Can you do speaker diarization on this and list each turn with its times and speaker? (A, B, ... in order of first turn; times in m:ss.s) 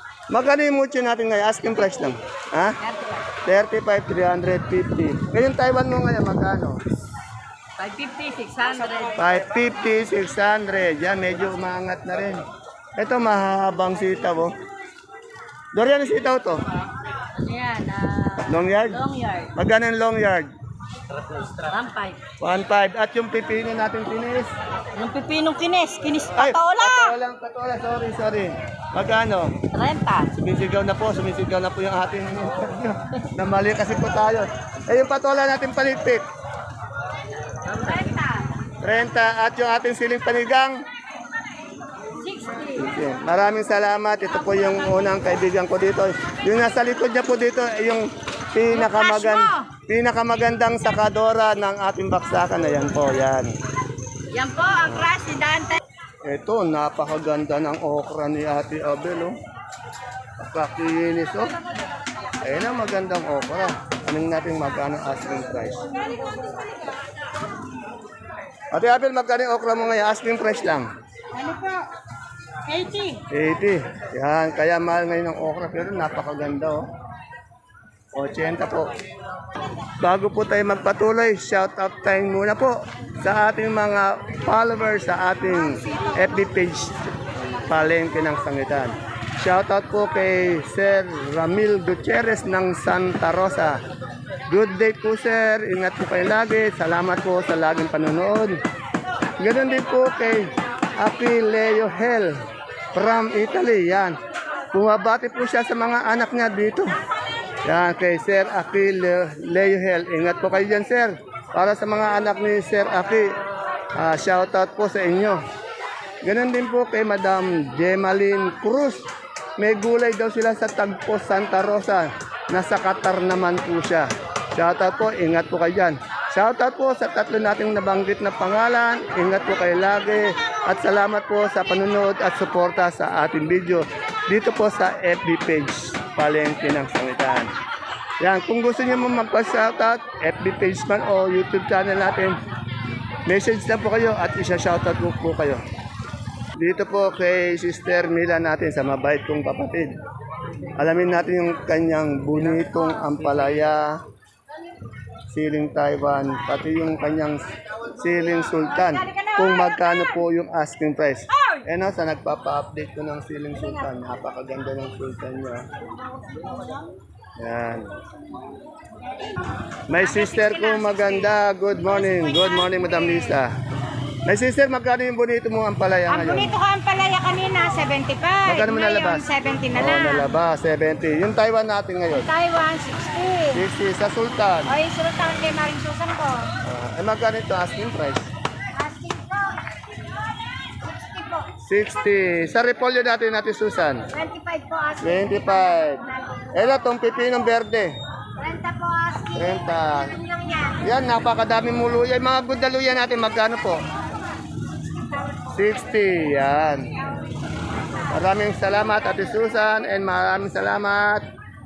0:00.3-0:02.8 A
0:02.8-0:03.2 B
0:03.4-0:06.8 A
0:07.8-0:09.2 B
0:09.2-0:12.4 A
0:13.0-0:14.5 A
0:15.8-0:16.6 A
0:17.4-0:19.5 B
0:18.5-0:19.0 A
0:19.6-0:20.5 A
0:21.6-0:22.2 B
0:22.4-0:24.5 A
0:24.9-0:27.1 B
0:26.4-0:29.6 A
0:29.7-0:30.3 B
0:30.3-0:36.3 A
0:38.8-0:40.8 A
0:42.2-0:42.8 C
0:42.7-0:53.5 A
0:48.7-0:49.5 B
0:54.3-0:55.8 B
0:56.2-0:59.4 A
1:00.4-1:01.6 A
1:02.4-1:05.9 A
1:06.0-1:06.5 C
1:08.7-1:10.9 A
1:11.4-1:11.8 C
1:12.7-1:13.2 C
1:13.3-1:16.8 A
1:18.1-1:18.9 A
1:20.0-1:27.1 A
1:27.6-1:33.8 A
1:34.5-1:38.6 A
1:39.4-1:42.4 A
1:43.0-1:44.2 A
1:44.7-1:47.0 A
1:47.7-1:53.3 A
1:54.0-1:55.4 A
1:56.2-1:59.0 A
1:59.6-2:17.5 A
2:18.2-2:22.4 A
2:23.3-2:25.6 A
2:26.6-2:30.0 A
2:30.8-2:34.0 A
2:35.3-2:37.4 A
2:38.0-2:45.7 A
2:38.9-2:39.5 C
2:46.2-2:46.8 C
2:47.4-2:48.0 A
2:49.9-2:53.5 A
2:50.0-2:53.4 C
2:54.3-2:56.5 A
2:56.1-3:00.3 C
2:58.5-3:02.3 A
3:02.1-3:03.6 C
3:03.5-3:04.8 A
3:04.7-3:06.5 C
3:06.6-3:08.3 A
3:08.8-3:09.6 C
3:10.8-3:11.5 C
3:11.7-3:14.0 A
3:14.1-3:16.5 C
3:15.0-3:17.9 A
3:18.4-3:19.6 C
3:19.4-3:20.2 A
3:20.2-3:20.8 C
3:20.8-3:23.8 A
3:25.5-3:26.9 A
3:28.1-3:31.3 A